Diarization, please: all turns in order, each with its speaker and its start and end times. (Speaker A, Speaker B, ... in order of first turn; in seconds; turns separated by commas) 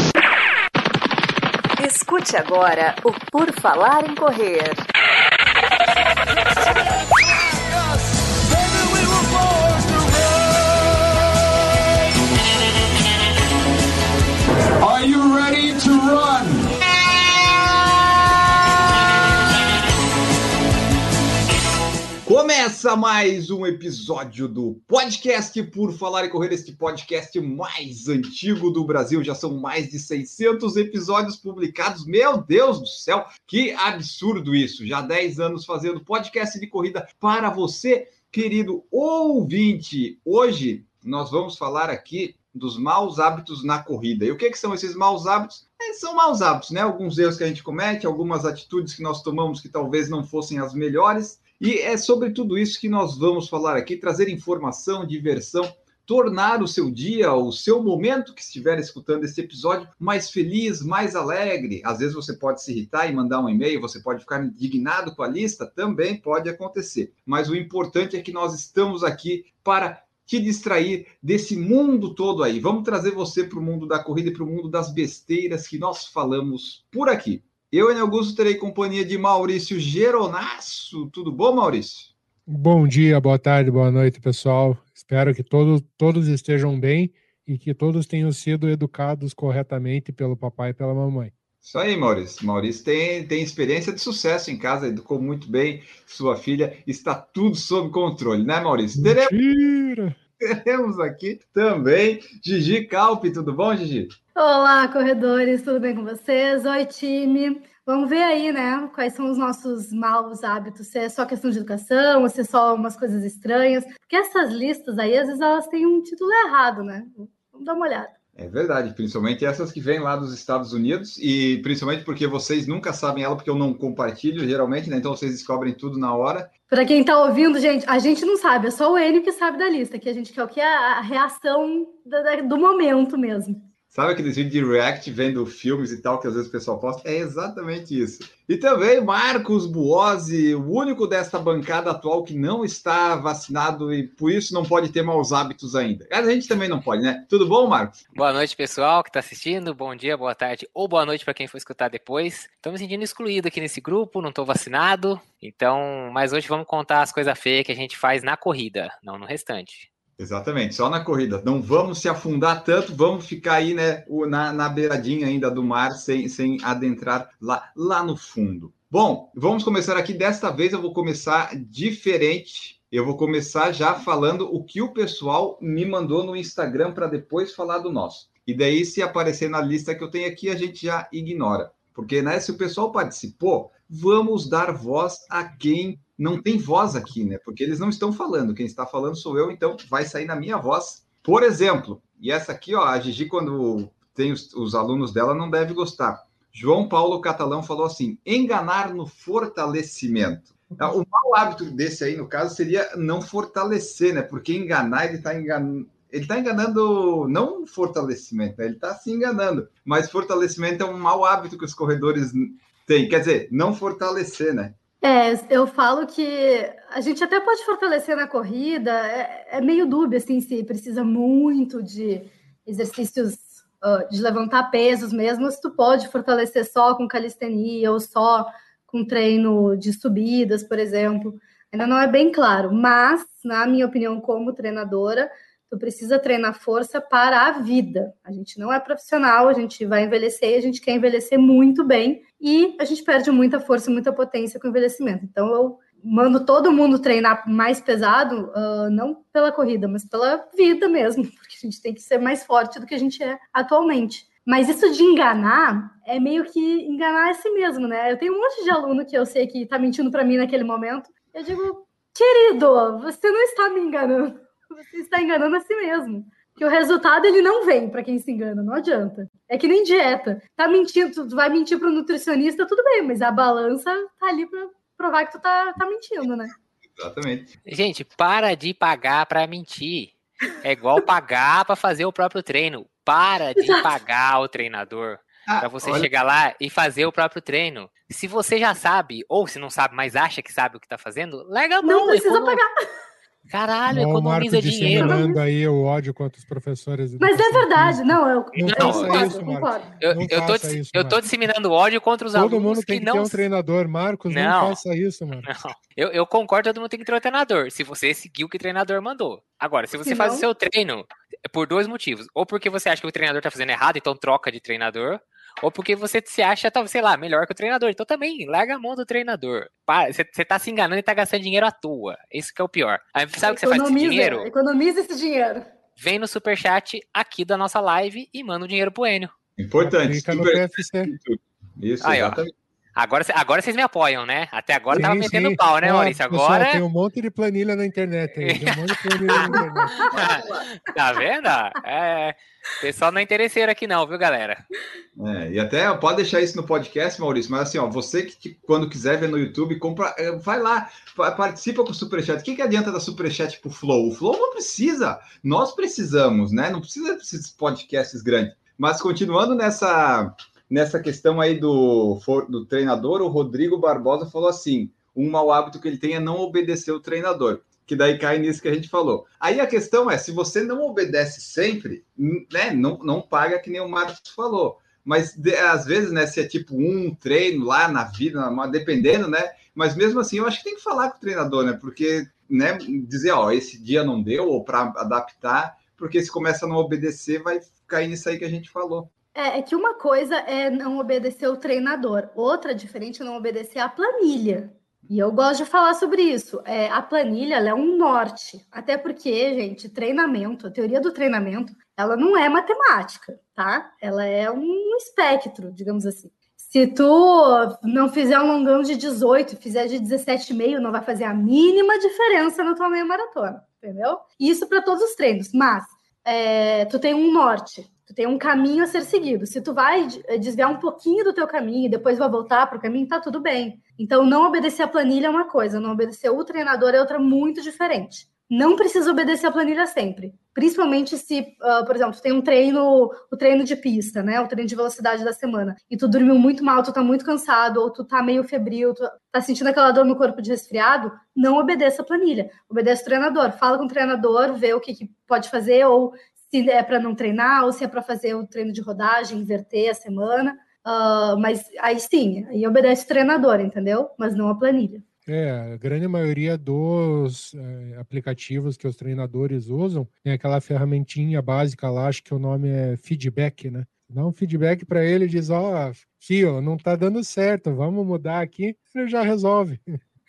Speaker A: 1.8-4.8, Speaker B: 6.5-11.1, Speaker B: 14.8-16.7, Speaker C: 22.2-82.1, Speaker D: 82.5-91.3, Speaker C: 91.6-99.3, Speaker D: 99.0-100.2, Speaker C: 100.4-104.1, Speaker E: 104.4-118.2, Speaker C: 118.4-126.5, Speaker E: 126.7-133.6, Speaker C: 133.9-148.0, Speaker F: 148.2-159.9, Speaker C: 160.2-214.7, Speaker E: 215.0-276.5, Speaker C: 277.0-277.5, Speaker F: 277.7-292.6, Speaker E: 283.6-283.8, Speaker C: 285.5-286.1, Speaker E: 291.8-292.8, Speaker F: 293.5-295.3, Speaker D: 293.9-301.2, Speaker E: 294.8-295.4, Speaker E: 297.2-299.9, Speaker F: 298.6-299.4, Speaker F: 300.0-303.4, Speaker D: 302.4-305.5, Speaker F: 304.3-304.8, Speaker F: 305.4-324.5, Speaker E: 310.1-310.5, Speaker E: 323.4-325.7, Speaker F: 326.0-329.3, Speaker C: 329.6-332.5, Speaker D: 329.8-331.1, Speaker F: 332.0-332.4, Speaker F: 333.0-336.8, Speaker D: 334.9-340.1, Speaker F: 338.4-344.6, Speaker C: 340.1-340.7, Speaker C: 345.2-389.1, Speaker E: 389.4-455.0, Speaker D: 455.3-470.0